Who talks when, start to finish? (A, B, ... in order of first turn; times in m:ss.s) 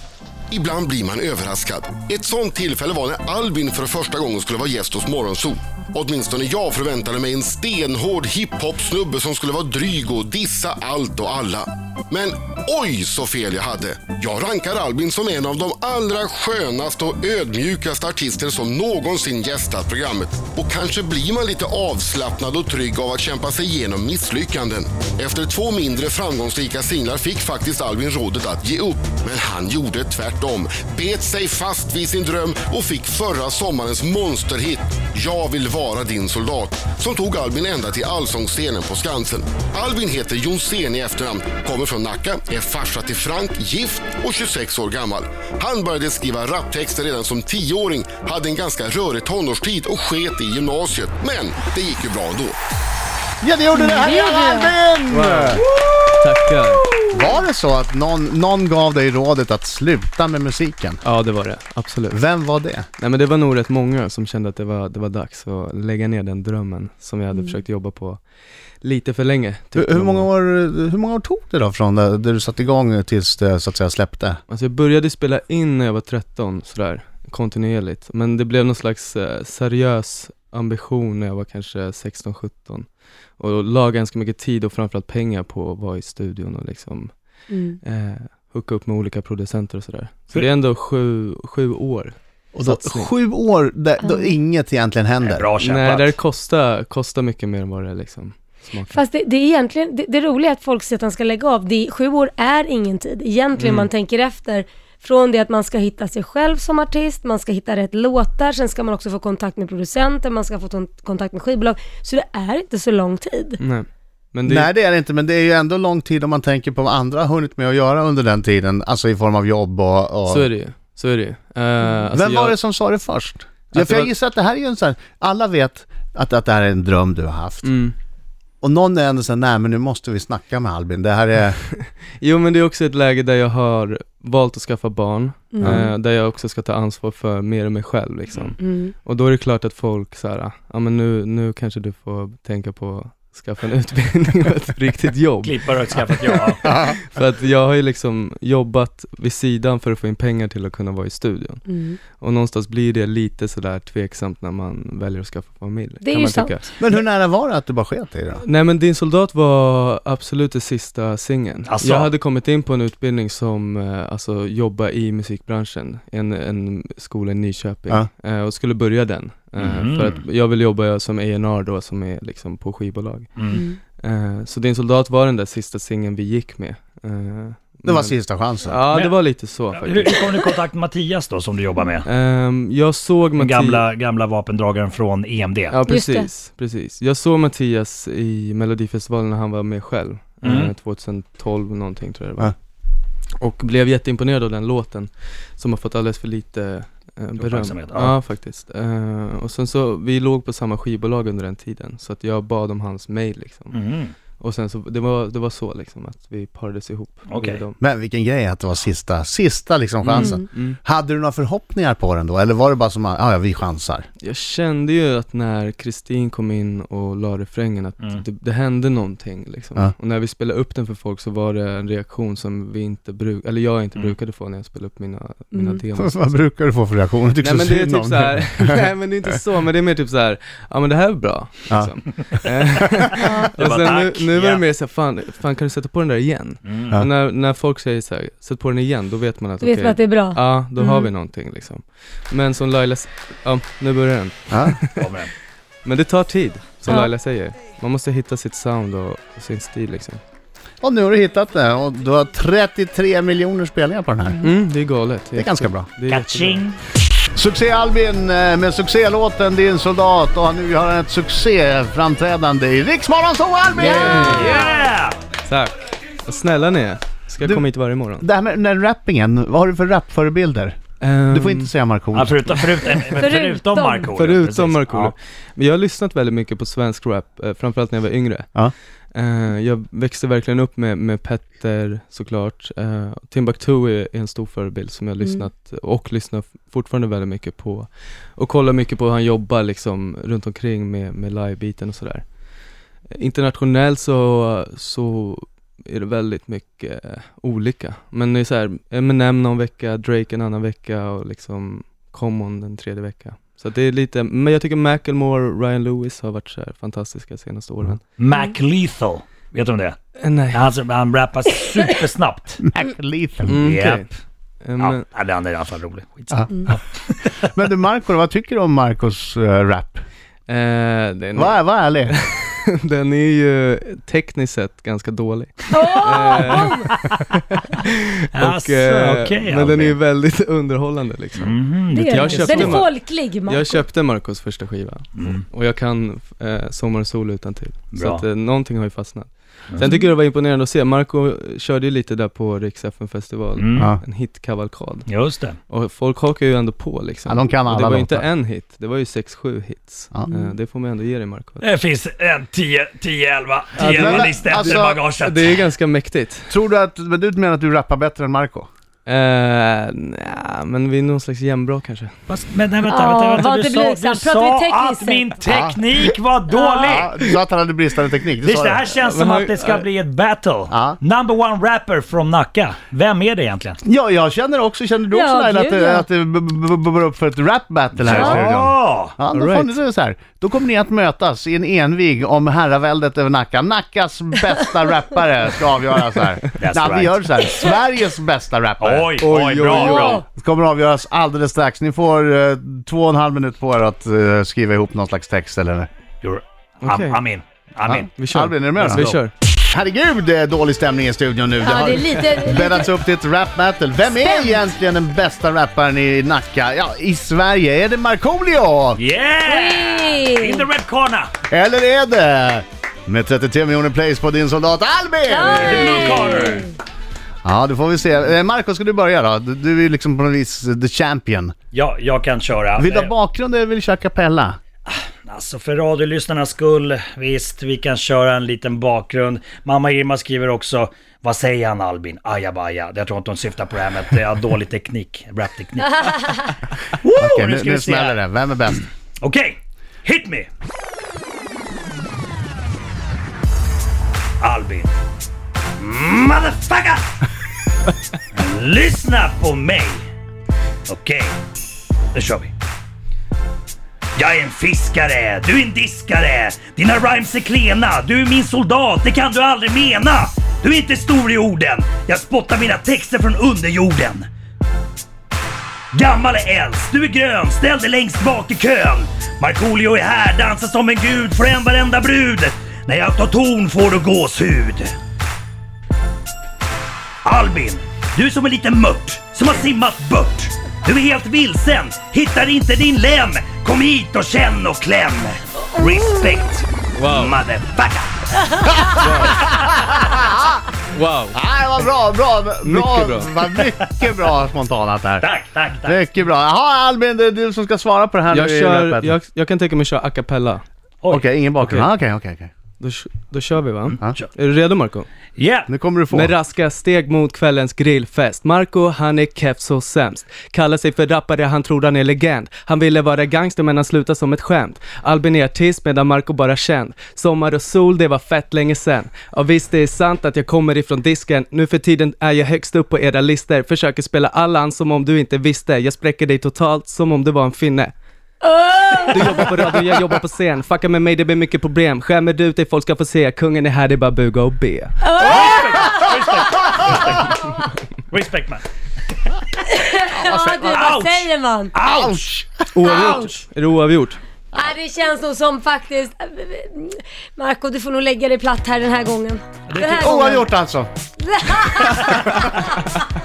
0:00.5-0:52.6 A
0:53.4-0:55.6 B
0:53.7-0:54.7 C
0:55.1-0:55.6 D
0:56.2-0:56.9 D
0:57.1-1:01.0 B
1:01.0-1:02.2 D
1:02.1-1:02.8 B
1:03.0-1:08.2 D
1:07.3-1:07.6 C
1:08.8-1:10.3 D
1:09.8-1:14.4 B
1:14.5-1:22.9 D
1:23.4-1:27.1 D
1:27.5-1:27.8 C
1:27.8-1:33.1 D
1:32.5-1:35.4 B
1:34.0-1:34.3 C
1:35.2-1:36.2 E
1:35.6-1:39.0 D
1:38.9-1:53.6 C
1:43.6-1:43.9 D
1:53.6-1:54.7 D
1:54.4-2:00.5 B
2:00.3-2:02.6 D
2:02.1-2:07.7 B
2:03.7-2:04.1 D
2:07.6-2:07.9 D
2:08.6-2:11.6 B
2:11.7-2:25.6 D
2:15.5-2:15.9 C
2:18.6-2:18.9 C
2:25.4-2:26.7 E
2:26.2-2:36.7 D
2:26.6-2:27.0 B
2:31.6-2:32.0 C
2:36.0-2:36.6 C
2:36.8-2:38.4 B
2:38.4-2:53.3 D
2:41.7-2:42.1 E
2:49.6-2:50.2 E
2:53.4-2:53.6 E
2:53.5-2:53.8 C
2:53.9-3:00.1 D
2:57.8-2:58.8 B
2:58.9-2:59.2 E
2:59.7-3:02.0 E
3:02.0-3:03.8 D
3:03.4-3:05.8 E
3:05.7-3:12.5 D
3:05.8-3:06.3 C
3:10.4-3:10.7 E
3:13.4-3:23.7 D
3:17.4-3:18.1 E
3:23.7-3:24.1 E
3:24.3-3:27.8 D
3:27.3-3:27.6 E
3:27.8-3:34.0 B
3:30.0-3:30.3 E
3:30.2-3:30.4 C
3:34.2-3:46.5 D
3:45.5-3:45.8 C
3:45.9-3:48.8 B
3:47.4-4:05.0 D
3:51.7-3:52.2 B
3:53.1-3:53.6 C
3:53.3-3:54.6 E
3:56.6-3:57.0 E
3:59.6-4:01.1 C
4:04.5-4:04.8 B
4:05.0-4:05.3 E
4:05.8-4:10.2 D
4:06.8-4:07.1 C
4:10.8-4:14.4 B
4:14.4-4:16.6 D
4:15.3-4:15.9 B
4:16.1-4:16.8 E
4:17.3-4:24.6 B
4:23.8-4:24.6 C
4:23.8-4:24.6 D
4:24.2-4:25.2 E
4:25.5-4:25.7 D
4:26.2-4:28.2 D
4:27.4-4:27.7 B
4:28.2-4:30.8 B
4:31.0-4:31.7 D
4:31.3-4:32.6 B
4:32.1-4:35.1 E
4:33.1-4:34.1 C
4:34.1-4:38.5 D
4:39.1-4:52.2 D
4:53.1-5:08.0 D
5:08.2-5:10.0 E
5:10.2-5:10.6 D
5:10.5-5:12.6 E
5:12.7-5:13.6 B
5:13.5-5:14.0 D
5:13.6-5:14.1 E
5:14.6-5:15.0 D
5:14.8-5:17.3 E
5:16.3-5:16.7 B
5:17.4-5:20.0 B
5:20.5-5:31.6 D
5:21.4-5:22.1 B
5:25.7-5:26.9 C
5:26.9-5:27.2 E
5:28.3-5:30.0 E
5:31.4-5:32.8 E
5:31.9-5:33.8 C
5:32.1-5:45.1 D
5:37.9-5:38.2 E
5:39.8-5:40.1 C
5:43.6-5:43.9 E
5:43.7-5:44.0 B
5:45.1-5:45.6 E
5:45.7-5:51.6 D
5:47.2-5:48.2 B
5:51.6-5:55.5 E
5:53.8-5:56.5 D
5:53.8-5:55.0 B
5:56.5-5:58.7 B
5:59.0-6:02.1 D
6:02.3-6:07.1 E
6:02.9-6:05.3 C
6:05.4-6:05.8 B
6:06.5-6:07.0 C
6:06.8-6:08.8 B
6:08.4-6:13.8 E
6:09.0-6:09.8 D
6:10.7-6:11.0 B
6:13.8-6:29.2 B
6:15.1-6:16.0 C
6:18.0-6:19.1 E
6:18.1-6:18.4 C
6:19.3-6:19.8 D
6:26.6-6:27.2 E
6:28.8-6:30.2 E
6:29.2-6:30.2 D
6:29.7-6:30.2 C
6:30.2-6:35.9 B
6:36.2-6:38.1 E
6:36.8-6:37.2 D
6:37.8-6:49.0 B
6:38.2-6:39.3 D
6:38.8-6:39.1 E
6:41.6-6:42.9 C
6:44.2-6:44.6 C
6:48.9-6:51.3 E
6:49.4-6:50.6 C
6:51.5-6:56.2 B
6:55.3-6:56.7 C
6:55.5-6:56.7 E
6:57.4-7:01.5 B
7:01.7-7:03.1 E
7:02.8-7:04.6 B
7:04.9-7:18.2 E
7:17.2-7:18.8 B
7:19.2-7:20.5 E
7:24.4-7:25.0 E
7:25.8-7:27.1 E
7:28.3-7:30.1 E
7:30.9-7:31.4 E
7:32.1-7:32.5 E
7:34.2-7:44.3 E
7:45.9-7:54.9 E
7:57.2-8:08.9 E
8:07.0-8:07.4 D
8:08.8-8:10.5 B
8:09.0-8:09.4 D
8:10.9-8:11.4 D
8:11.3-8:15.3 B
8:12.6-8:13.3 D
8:15.2-8:16.0 E
8:15.8-8:19.1 B
8:18.3-8:20.6 D
8:21.1-8:22.5 B
8:22.8-8:25.1 D
8:23.9-8:24.2 E
8:25.4-8:25.7 E
8:25.7-8:26.3 B
8:26.1-8:47.9 D
8:48.4-8:49.6 C
8:49.0-8:55.0 D
8:55.0-8:56.6 C
8:55.2-8:57.4 E
8:57.3-8:57.6 C
8:58.1-8:58.6 E
8:59.6-9:01.7 C
9:00.1-9:00.9 B
9:00.7-9:02.2 E
9:01.8-9:03.0 B
9:02.7-9:04.2 D
9:02.8-9:03.4 C
9:04.5-9:10.5 C
9:09.7-9:09.9 E
9:10.0-9:10.9 B
9:11.2-9:12.6 C